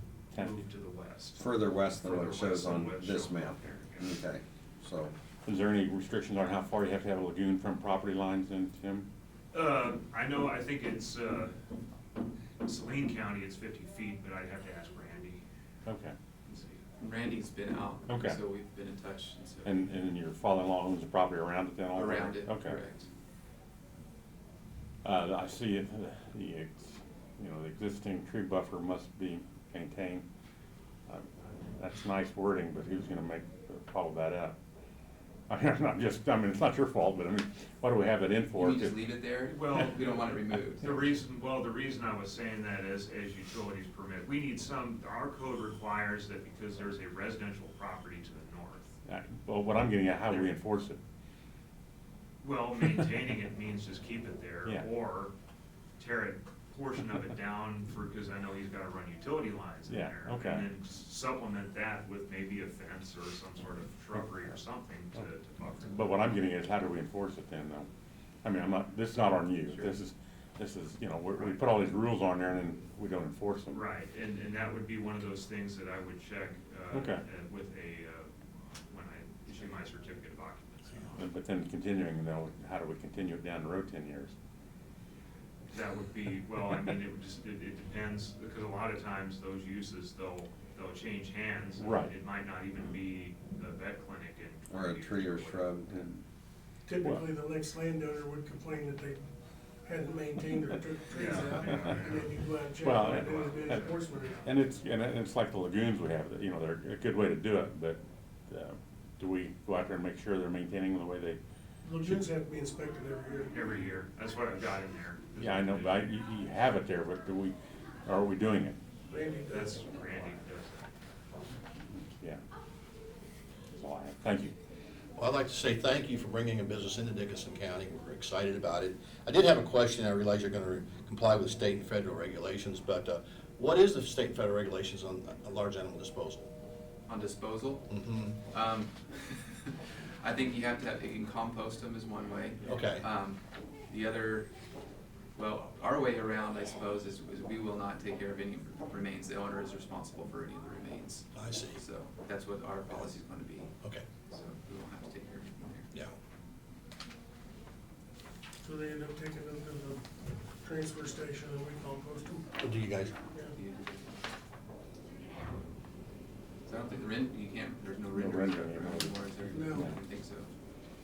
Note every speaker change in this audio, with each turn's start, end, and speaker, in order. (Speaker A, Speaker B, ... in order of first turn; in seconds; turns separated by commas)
Speaker A: 0.3-0.7, Speaker B: 0.3-1.4, Speaker C: 1.4-5.1, Speaker B: 2.0-4.2, Speaker A: 5.5-9.1, Speaker B: 9.5-11.5, Speaker B: 12.6-15.4, Speaker A: 15.9-16.2, Speaker B: 16.5-16.8, Speaker D: 17.0-19.8, Speaker A: 18.1-18.4, Speaker A: 19.6-22.8, Speaker D: 21.9-23.1, Speaker A: 25.0-30.2, Speaker A: 31.1-34.6, Speaker A: 35.5-39.0, Speaker D: 38.6-40.9, Speaker B: 39.5-49.0, Speaker A: 49.0-51.0, Speaker B: 52.4-55.3, Speaker B: 56.0-66.3, Speaker A: 59.9-60.7, Speaker A: 65.9-67.9, Speaker A: 68.4-73.8, Speaker B: 69.2-70.0, Speaker B: 73.7-78.3, Speaker A: 76.9-77.2, Speaker B: 78.9-81.3, Speaker A: 81.2-84.3, Speaker B: 85.7-95.7, Speaker A: 91.8-92.1, Speaker C: 94.7-96.1, Speaker A: 95.9-96.2, Speaker E: 96.9-99.3, Speaker E: 99.8-104.6, Speaker B: 101.1-102.1, Speaker A: 102.8-103.9, Speaker B: 103.3-103.8, Speaker A: 104.5-111.4, Speaker E: 111.8-113.5, Speaker B: 113.5-116.1, Speaker A: 115.4-117.5, Speaker A: 118.1-118.8, Speaker E: 119.1-120.4, Speaker B: 119.5-120.9, Speaker A: 121.9-122.4, Speaker A: 123.7-124.5, Speaker F: 125.2-136.5, Speaker D: 137.1-137.9, Speaker F: 137.9-138.4, Speaker D: 138.4-144.5, Speaker F: 142.6-143.0, Speaker D: 145.3-153.7, Speaker F: 151.3-151.8, Speaker D: 154.2-155.9, Speaker E: 158.6-160.1, Speaker E: 160.6-162.5, Speaker F: 162.6-163.2, Speaker E: 163.2-163.5, Speaker D: 163.5-164.1, Speaker D: 166.7-170.5, Speaker A: 168.1-169.9, Speaker E: 169.5-169.9